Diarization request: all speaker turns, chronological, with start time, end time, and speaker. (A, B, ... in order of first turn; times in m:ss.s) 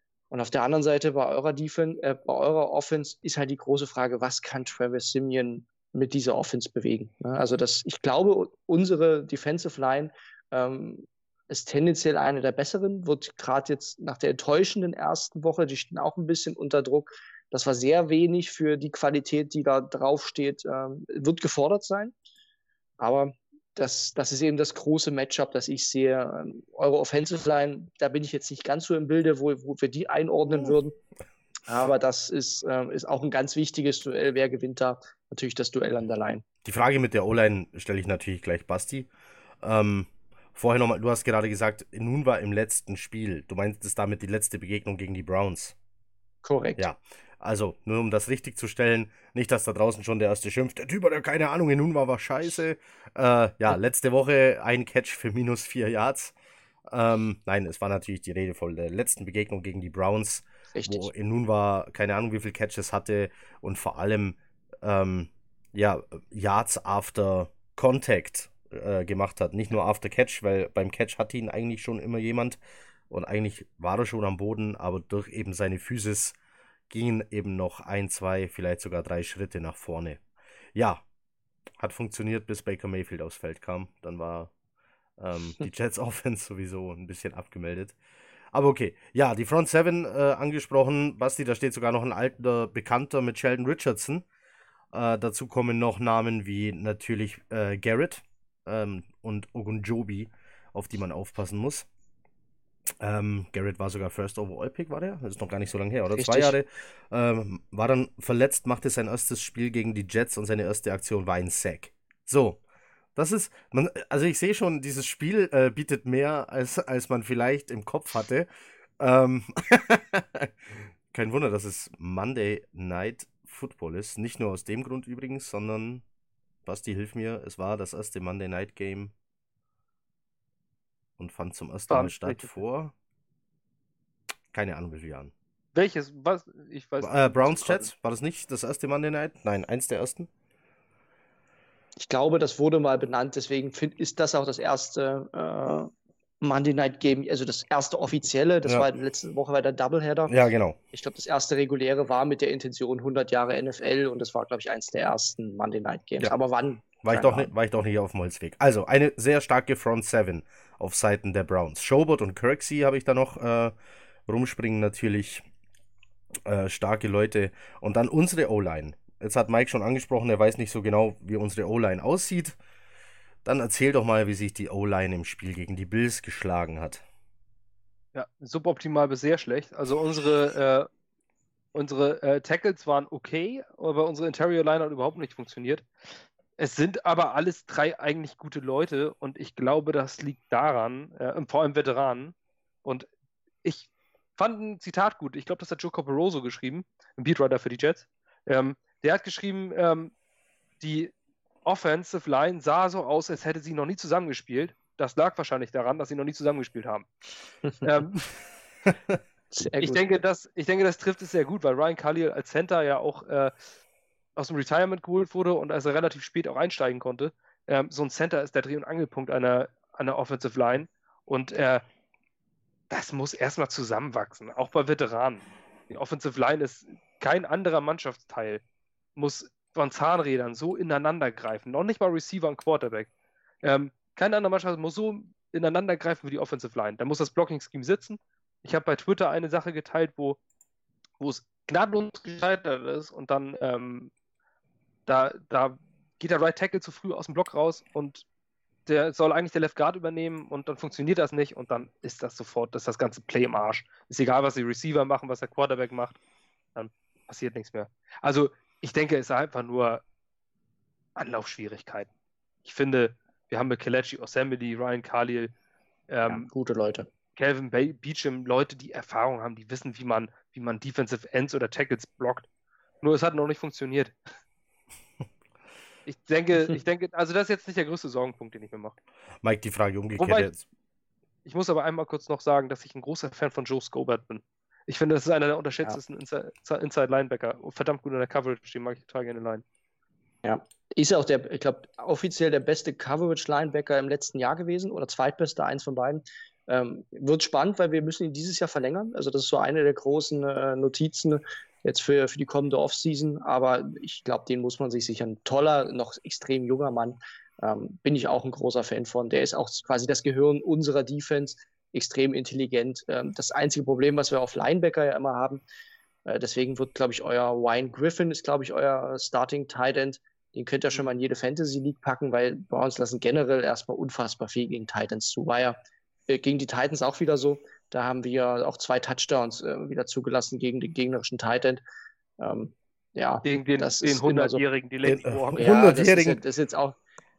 0:00.3-0:22.1 A
0:23.0-0:31.0 A
0:31.7-0:36.4 A
0:36.6-0:39.1 B
0:39.6-0:45.8 B
0:46.4-0:46.8 A
0:46.8-0:56.4 B
0:56.9-1:12.6 B
1:00.7-1:01.1 A
1:13.1-1:16.4 B
1:16.9-1:20.2 B
1:20.8-1:21.0 B
1:21.8-1:24.5 B
1:25.2-1:28.0 B
1:28.5-1:34.2 B
1:34.9-1:41.9 B
1:43.0-1:52.6 B
1:46.2-1:46.6 A
1:53.2-1:58.5 B
1:59.0-2:06.0 B
2:06.6-2:09.1 B
2:11.2-2:12.9 B
2:11.9-2:12.6 C
2:14.5-2:15.3 B
2:15.8-2:17.9 C
2:17.0-2:20.3 B
2:22.0-2:25.9 A
2:26.4-2:30.4 A
2:30.3-2:30.8 B
2:30.9-2:37.5 A
2:37.0-2:43.7 B
2:44.3-2:45.5 B
2:46.5-2:52.6 B
2:53.4-2:57.0 B
2:58.1-3:00.9 C
3:01.7-3:05.9 C
3:06.6-3:12.3 C
3:13.6-3:20.1 C
3:20.8-3:21.1 C
3:21.6-3:27.1 C
3:27.8-3:28.3 C
3:29.5-3:30.0 A
3:29.8-3:33.5 C
3:34.4-3:41.8 C
3:42.9-3:48.6 C
3:49.2-3:53.1 C
3:53.6-4:00.4 C
4:01.2-4:04.1 C
4:05.1-4:08.2 C
4:08.9-4:16.2 C
4:16.8-4:20.0 C
4:21.2-4:22.1 C
4:22.6-4:25.5 C
4:26.1-4:26.5 C
4:26.3-4:27.1 A
4:27.4-4:32.5 C
4:33.0-4:34.1 C
4:36.1-4:38.9 C
4:39.4-4:40.6 B
4:40.2-4:40.5 C
4:41.5-4:49.6 C
4:50.4-5:15.6 A
5:16.3-5:25.8 A
5:26.3-5:31.8 A
5:32.4-5:34.6 A
5:33.4-5:35.7 C
5:35.0-5:36.4 B
5:35.6-5:37.0 A